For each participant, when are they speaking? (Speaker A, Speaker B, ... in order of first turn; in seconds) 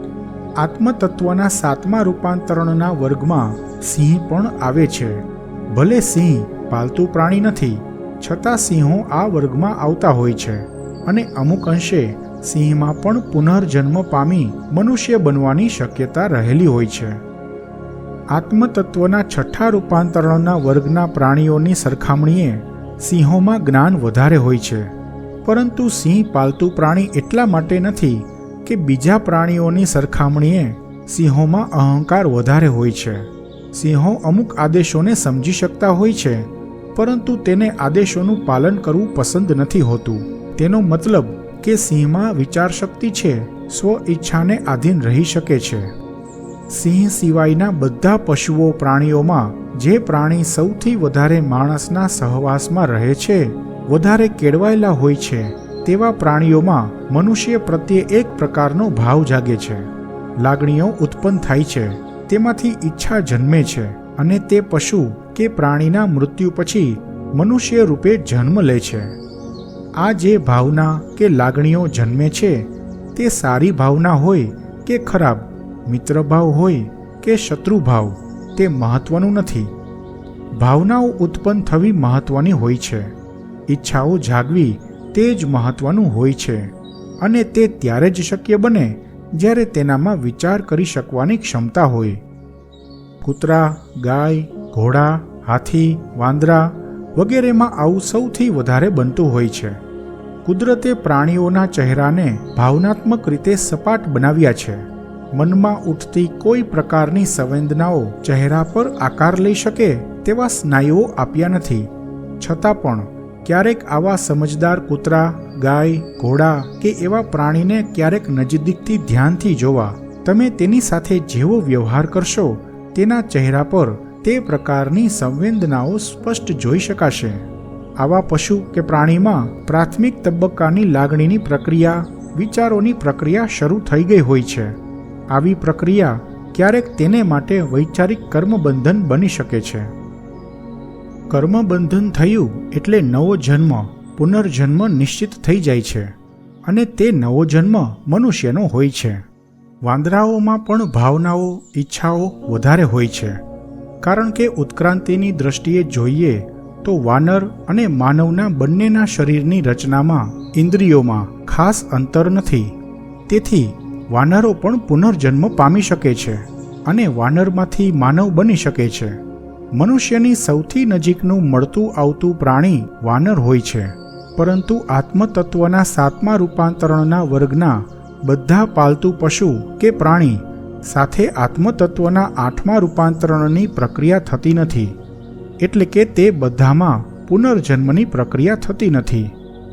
Speaker A: 0.6-17.2, 18.3-24.9, 25.4-45.9, 46.7-69.2, 70.0-79.7, 80.5-83.1, 83.7-92.2, 93.2-99.8, 100.4-127.5, 128.0-134.8, 135.3-139.9, 141.3-146.1, 146.7-149.2, 149.8-153.4, 154.0-162.8, 163.3-169.2, 169.7-185.0, 185.6-189.3